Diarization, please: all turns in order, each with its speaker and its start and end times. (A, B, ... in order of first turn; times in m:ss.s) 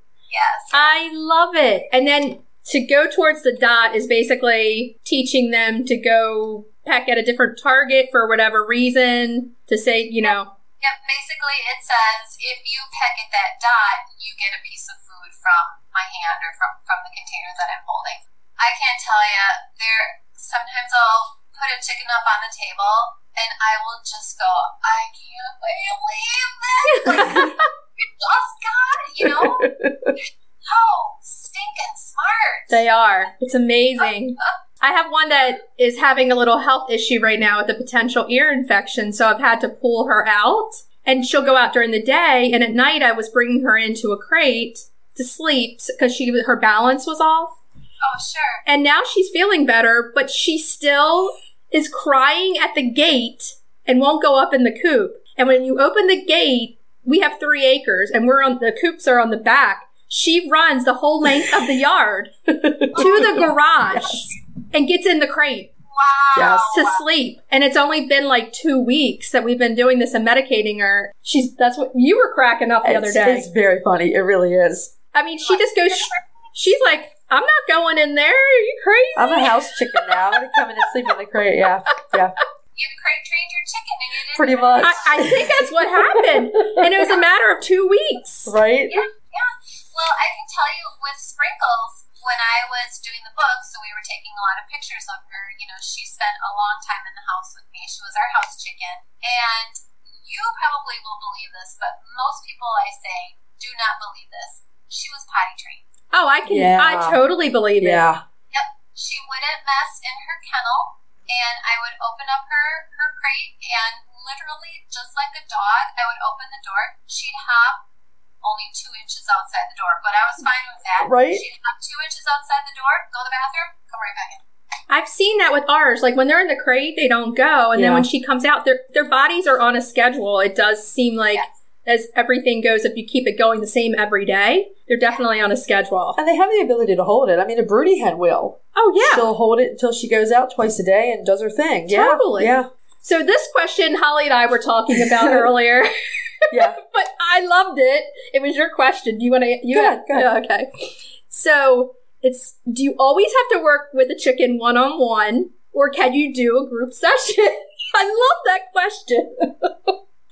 0:00.3-0:00.8 A
0:00.7-0:10.5 B
0:10.2-0:29.7 A
0:27.1-0:27.6 B
0:29.2-0:30.1 C
0:30.6-0:32.8 A
0:32.7-0:47.6 B
0:48.0-0:48.6 A
0:48.6-1:02.3 B
1:02.5-1:04.1 C
1:02.9-1:03.4 A
1:02.9-1:05.7 B
1:05.9-1:07.0 A
1:06.3-1:06.8 C
1:06.7-1:13.5 B
1:12.8-1:14.9 C
1:15.1-1:20.0 B
1:15.4-1:16.2 A
1:19.2-1:22.4 C
1:22.7-1:25.3 A
1:24.3-1:27.1 C
1:24.8-1:28.5 B
1:28.5-1:29.0 C
1:28.9-1:45.8 A
1:46.1-1:48.0 B
1:46.4-1:47.2 C
1:47.8-1:48.2 C
1:48.5-1:57.8 A
1:58.4-2:04.4 A
2:01.0-2:01.4 C
2:04.9-2:16.2 B
2:07.8-2:08.1 C
2:16.2-2:22.7 C
2:18.8-2:19.3 B
2:21.9-2:39.9 B
2:26.5-2:26.8 C
2:29.7-2:30.3 C